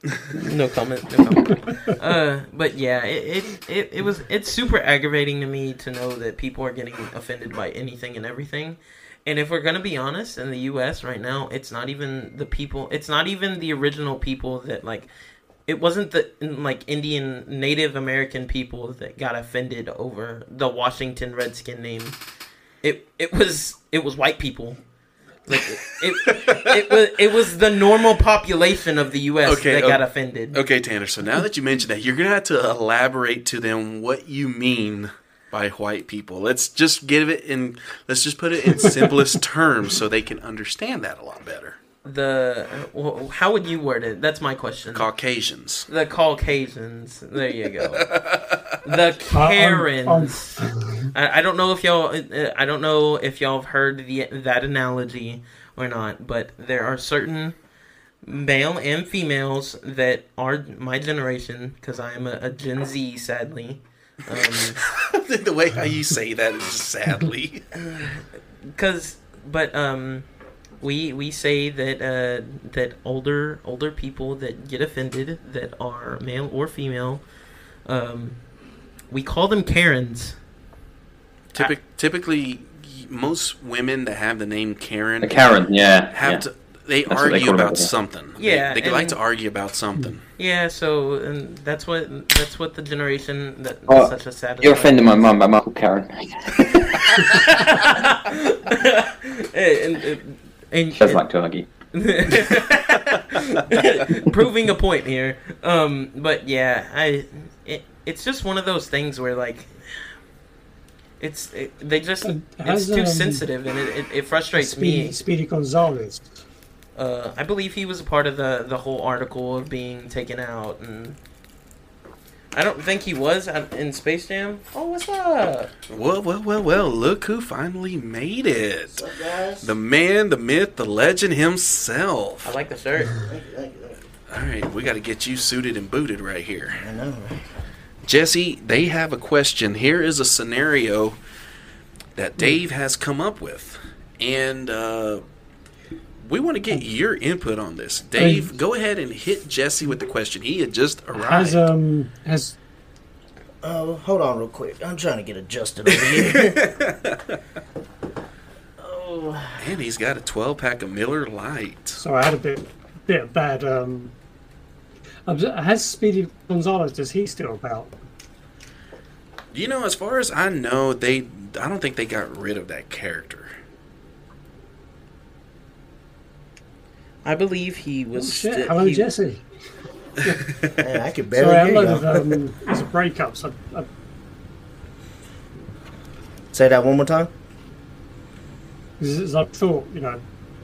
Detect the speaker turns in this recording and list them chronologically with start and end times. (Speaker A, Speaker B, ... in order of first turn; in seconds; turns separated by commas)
Speaker A: 0.4-15.1, Speaker A: 15.7-22.2, Speaker A: 22.8-24.8, Speaker A: 25.5-30.6, Speaker B: 26.3-26.9, Speaker B: 29.5-41.8, Speaker A: 42.0-45.1, Speaker B: 44.9-45.9, Speaker A: 45.9-48.1, Speaker B: 48.0-48.8, Speaker A: 48.8-57.6, Speaker C: 49.3-51.1, Speaker A: 58.2-64.8, Speaker B: 64.3-67.7, Speaker A: 67.8-70.3, Speaker A: 70.8-77.2, Speaker A: 77.9-78.4, Speaker A: 79.1-80.4, Speaker B: 81.5-85.5, Speaker D: 85.2-86.4, Speaker B: 86.1-90.2, Speaker D: 87.1-87.9, Speaker A: 88.4-89.2, Speaker A: 90.4-95.2, Speaker D: 93.9-97.5, Speaker A: 97.2-101.2, Speaker D: 101.0-101.7, Speaker A: 101.9-110.1, Speaker A: 111.2-115.2, Speaker C: 112.2-113.5, Speaker C: 114.6-116.4, Speaker A: 117.0-121.2, Speaker A: 122.5-125.7, Speaker B: 125.9-129.1, Speaker E: 129.0-129.7, Speaker B: 129.6-132.5, Speaker A: 132.4-133.2, Speaker E: 133.1-134.0, Speaker B: 134.3-136.8, Speaker E: 136.8-137.4, Speaker B: 138.1-141.2, Speaker B: 142.2-145.2, Speaker B: 146.2-151.6, Speaker C: 148.2-148.5, Speaker C: 151.2-152.6, Speaker E: 153.6-156.6, Speaker B: 155.9-157.4, Speaker E: 158.8-159.7, Speaker B: 159.6-162.0, Speaker C: 162.0-164.1, Speaker C: 165.3-167.9, Speaker B: 169.5-173.5, Speaker A: 177.2-179.1, Speaker C: 178.2-179.5, Speaker E: 180.8-182.4, Speaker C: 181.4-183.9, Speaker E: 186.5-187.3, Speaker C: 189.0-190.2